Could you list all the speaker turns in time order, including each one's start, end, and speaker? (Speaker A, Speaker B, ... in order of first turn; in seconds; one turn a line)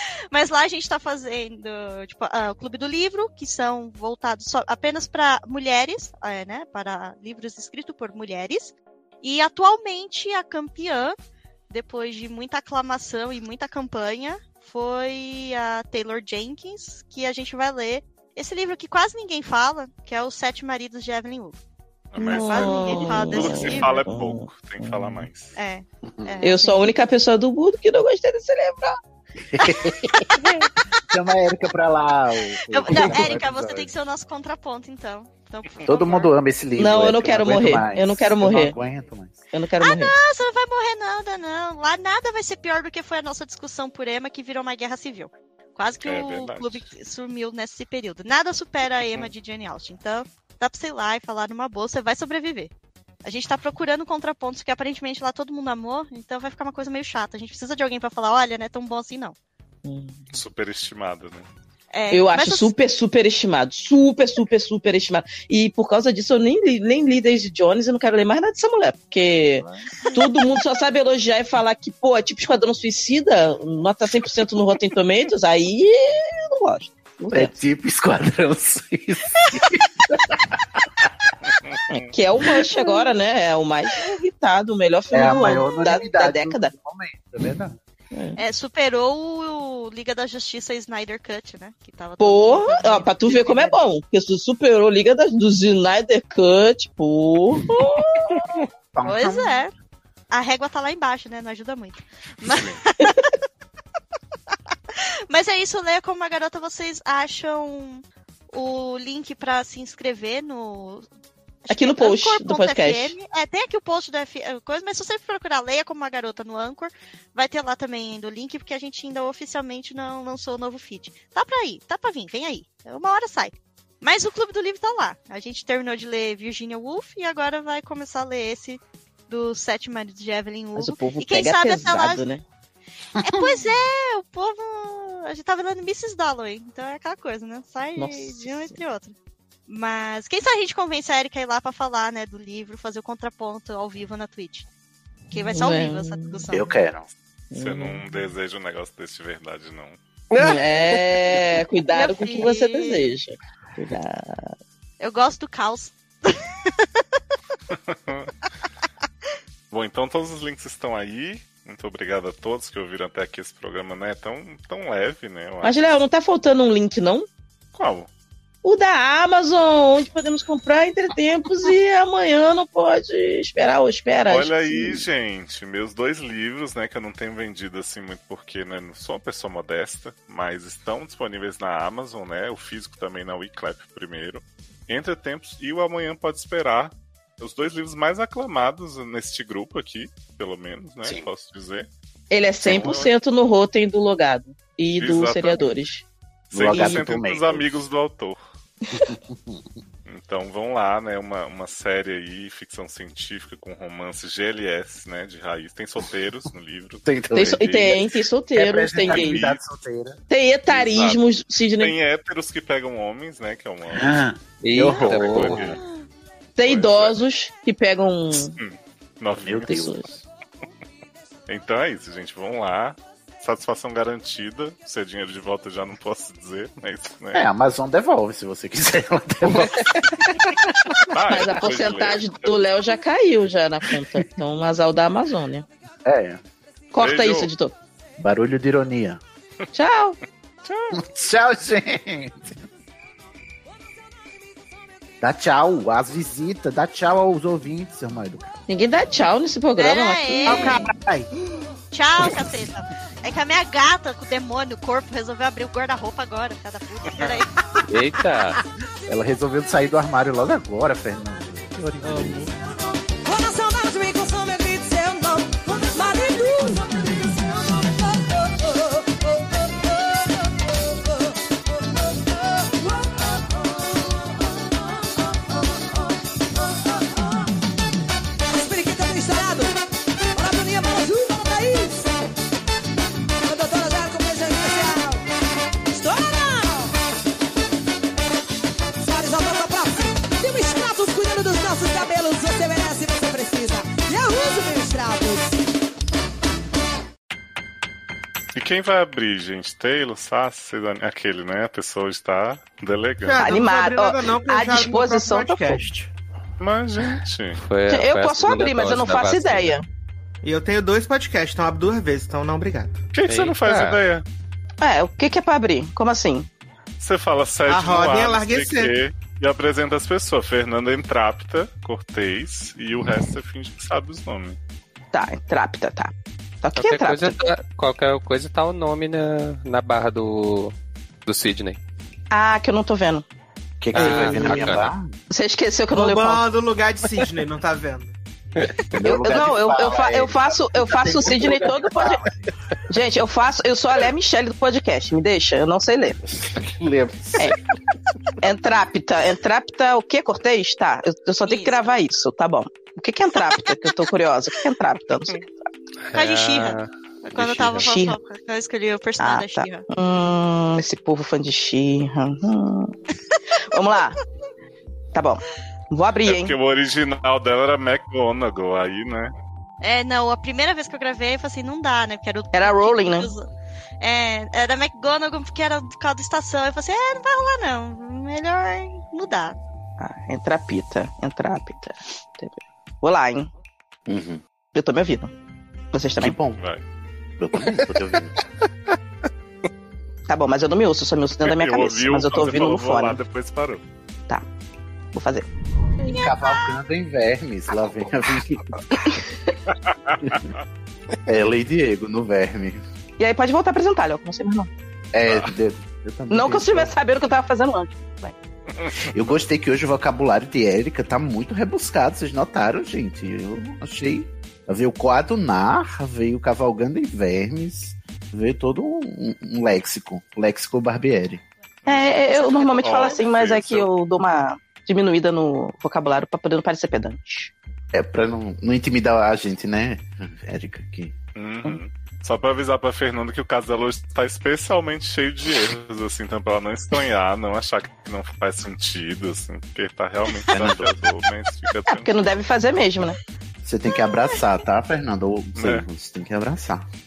Speaker A: 0.3-11.2
Speaker A: 11.7-21.6
Speaker B: 22.1-25.6
Speaker A: 22.2-23.9
Speaker C: 22.2-25.3
Speaker A: 25.6-26.9
Speaker D: 26.0-26.5
Speaker C: 26.4-29.0
Speaker D: 29.5-30.5
Speaker D: 31.1-33.9
Speaker A: 32.7-36.3
Speaker C: 32.9-33.3
Speaker D: 35.9-39.5
Speaker C: 36.8-38.8
Speaker C: 39.5-40.1
Speaker A: 39.8-52.7
Speaker B: 46.0-46.9
Speaker A: 53.2-59.4
Speaker C: 59.9-60.2
Speaker B: 60.3-61.5
Speaker A: 61.9-62.7
Speaker C: 62.1-77.5
Speaker D: 77.3-81.3
Speaker B: 81.5-82.0
Speaker C: 81.9-86.7
Speaker D: 85.1-87.8
Speaker C: 88.1-88.4
Speaker A: 88.4-93.8
Speaker C: 92.2-98.5
Speaker D: 98.9-99.6
Speaker A: 99.0-99.7
Speaker A: 100.3-103.3
Speaker A: 105.0-111.1
Speaker A: 111.7-132.2
Speaker C: 111.7-113.2
Speaker C: 130.8-132.4
Speaker D: 133.2-133.5
Speaker A: 133.2-139.2
Speaker C: 138.0-138.8
Speaker A: 139.7-144.7
Speaker A: 145.3-146.8
Speaker C: 145.3-146.6
Speaker D: 146.5-147.1
Speaker C: 147.5-148.3
Speaker B: 147.6-150.0
Speaker E: 150.3-151.0
Speaker C: 150.4-154.6
Speaker A: 151.9-153.1
Speaker A: 155.0-156.9
Speaker B: 157.7-158.3
Speaker B: 159.7-165.8
Speaker C: 165.6-167.3
Speaker B: 167.8-168.1
Speaker C: 168.6-175.0
Speaker B: 174.3-191.9
Speaker C: 192.3-196.1
Speaker B: 192.6-193.1
Speaker B: 195.0-195.7
Speaker B: 196.5-198.5
Speaker D: 196.5-197.9
Speaker C: 196.7-197.1
Speaker D: 199.0-199.6
Speaker B: 200.1-207.1
Speaker D: 207.1-210.2
Speaker C: 207.3-209.4
Speaker B: 209.0-209.6
Speaker C: 210.3-211.9
Speaker B: 210.7-211.2
Speaker B: 211.8-214.1
Speaker D: 213.9-215.8
Speaker E: 214.6-215.8
Speaker B: 214.9-215.8
Speaker C: 216.6-218.6
Speaker B: 216.6-217.2
Speaker B: 218.4-220.2
Speaker D: 219.3-220.0
Speaker C: 219.7-220.0
Speaker B: 221.5-227.4
Speaker D: 227.3-231.1
Speaker B: 231.1-232.6
Speaker C: 231.3-235.7
Speaker D: 236.1-236.4
Speaker C: 236.9-237.8
Speaker B: 237.0-237.5
Speaker D: 238.2-239.2
Speaker C: 239.7-240.2
Speaker B: 240.7-241.0
Speaker D: 240.9-242.5
Speaker D: 245.2-248.6
Speaker C: 248.7-250.8
Speaker A: 249.8-250.9
Speaker F: 250.5-251.3
Speaker A: 251.9-257.5
Speaker E: 257.9-258.6
Speaker D: 259.1-262.5
Speaker G: 262.0-262.5
Speaker G: 263.1-277.5
Speaker G: 278.5-279.8
Speaker G: 280.4-282.1
Speaker G: 283.4-285.2
Speaker G: 285.9-287.0
Speaker G: 289.0-295.6
Speaker B: 298.6-303.5
Speaker F: 303.2-306.1
Speaker C: 303.4-305.8
Speaker B: 306.6-307.6
Speaker E: 307.6-309.8
Speaker C: 307.9-309.9
Speaker F: 310.4-313.0
Speaker B: 313.1-314.2
Speaker E: 313.3-314.0
Speaker C: 314.8-316.5
Speaker B: 317.0-324.6
Speaker F: 317.7-318.9
Speaker C: 325.1-327.5
Speaker E: 326.8-330.8
Speaker E: 331.3-331.8
Speaker C: 332.3-333.3
Speaker D: 333.8-335.1
Speaker E: 333.9-334.9
Speaker C: 333.9-336.4
Speaker F: 335.9-338.2
Speaker E: 338.6-339.0
Speaker D: 338.9-342.3
Speaker C: 339.0-342.3
Speaker C: 342.9-346.2
Speaker D: 346.8-347.5
Speaker C: 348.4-355.5
Speaker A: 351.4-351.9
Speaker E: 356.1-357.9
Speaker A: 356.1-359.9
Speaker C: 357.8-358.2
Speaker C: 359.2-363.0
Speaker C: 363.6-364.2
Speaker C: 365.1-366.6
Speaker B: 366.2-369.3
Speaker A: 369.8-373.5
Speaker C: 372.5-373.3
Speaker A: 374.0-379.6
Speaker C: 380.0-383.5
Speaker D: 384.1-384.4
Speaker C: 384.7-385.3
Speaker C: 385.9-386.4
Speaker D: 386.2-386.6
Speaker B: 386.6-386.8
Speaker D: 387.4-388.4
Speaker C: 390.3-393.2
Speaker B: 391.4-393.8
Speaker C: 395.1-395.5
Speaker D: 396.0-398.8
Speaker C: 398.9-399.6
Speaker B: 399.9-400.6
Speaker D: 400.2-400.5
Speaker D: 401.2-402.8
Speaker C: 403.2-404.7
Speaker D: 405.1-406.9
Speaker B: 405.3-405.5
Speaker C: 406.3-408.4
Speaker B: 408.8-409.1
Speaker D: 409.1-421.4
Speaker B: 421.9-423.9
Speaker C: 421.9-427.5
Speaker A: 422.3-423.2
Speaker D: 427.9-431.1
Speaker B: 431.4-442.2
Speaker D: 440.5-441.0
Speaker C: 441.9-443.2
Speaker D: 443.6-446.9
Speaker B: 445.6-445.9